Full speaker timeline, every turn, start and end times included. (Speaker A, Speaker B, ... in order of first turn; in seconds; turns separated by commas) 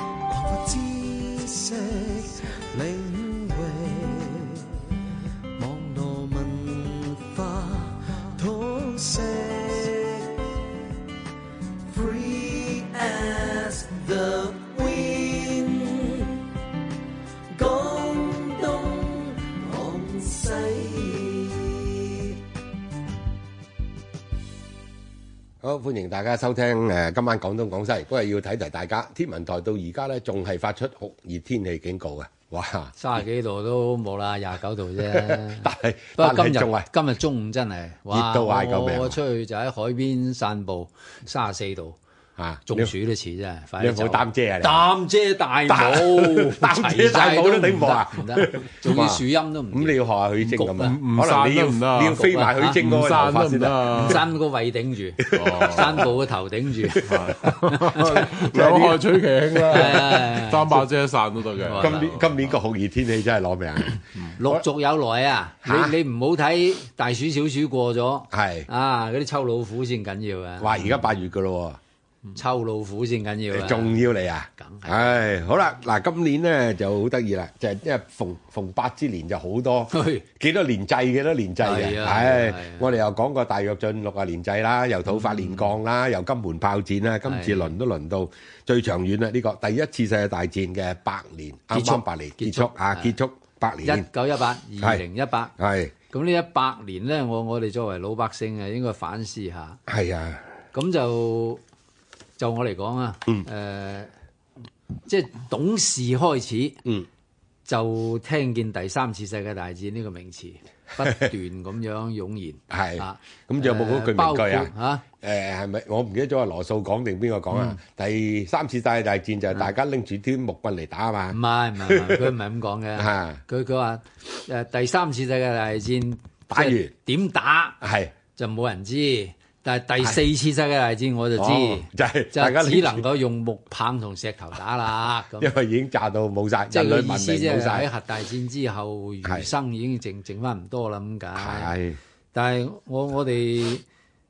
Speaker A: 0.3-5.0, Speaker A: 5.6-10.6, Speaker A: 11.9-16.5, Speaker A: 17.5-22.4, Speaker B: 25.6-33.0, Speaker C: 33.0-42.0, Speaker B: 35.1-36.9, Speaker B: 38.1-39.2, Speaker B: 42.4-42.9, Speaker C: 42.7-50.0, Speaker B: 43.8-44.9, Speaker B: 45.7-53.9, Speaker D: 50.4-54.2, Speaker C: 52.0-52.8, Speaker C: 53.9-58.5, Speaker B: 55.2-56.1, Speaker D: 55.3-56.0, Speaker B: 56.8-60.1, Speaker D: 57.0-62.5, Speaker C: 59.6-60.9, Speaker C: 61.6-62.2, Speaker B: 61.8-64.6, Speaker C: 64.3-70.8, Speaker B: 65.6-66.0, Speaker B: 68.3-68.7, Speaker B: 70.6-71.8, Speaker C: 72.3-74.0, Speaker B: 73.5-94.1, Speaker C: 74.6-75.2, Speaker C: 79.9-80.2, Speaker C: 81.6-82.9, Speaker C: 85.2-85.7, Speaker C: 87.3-87.7, Speaker C: 91.7-93.2, Speaker C: 93.8-95.5, Speaker B: 95.6-95.9, Speaker C: 96.1-99.8, Speaker B: 99.9-100.5, Speaker C: 100.7-101.6, Speaker C: 102.4-104.1, Speaker C: 105.1-106.8, Speaker C: 107.7-115.0, Speaker B: 112.7-122.3, Speaker C: 121.3-127.8, Speaker B: 123.0-123.4, Speaker B: 126.5-126.9, Speaker B: 127.8-128.1, Speaker C: 128.4-135.6, Speaker B: 131.4-133.0, Speaker B: 135.4-137.9, Speaker C: 136.7-141.7, Speaker B: 139.2-139.5, Speaker B: 141.3-142.0, Speaker C: 142.3-143.8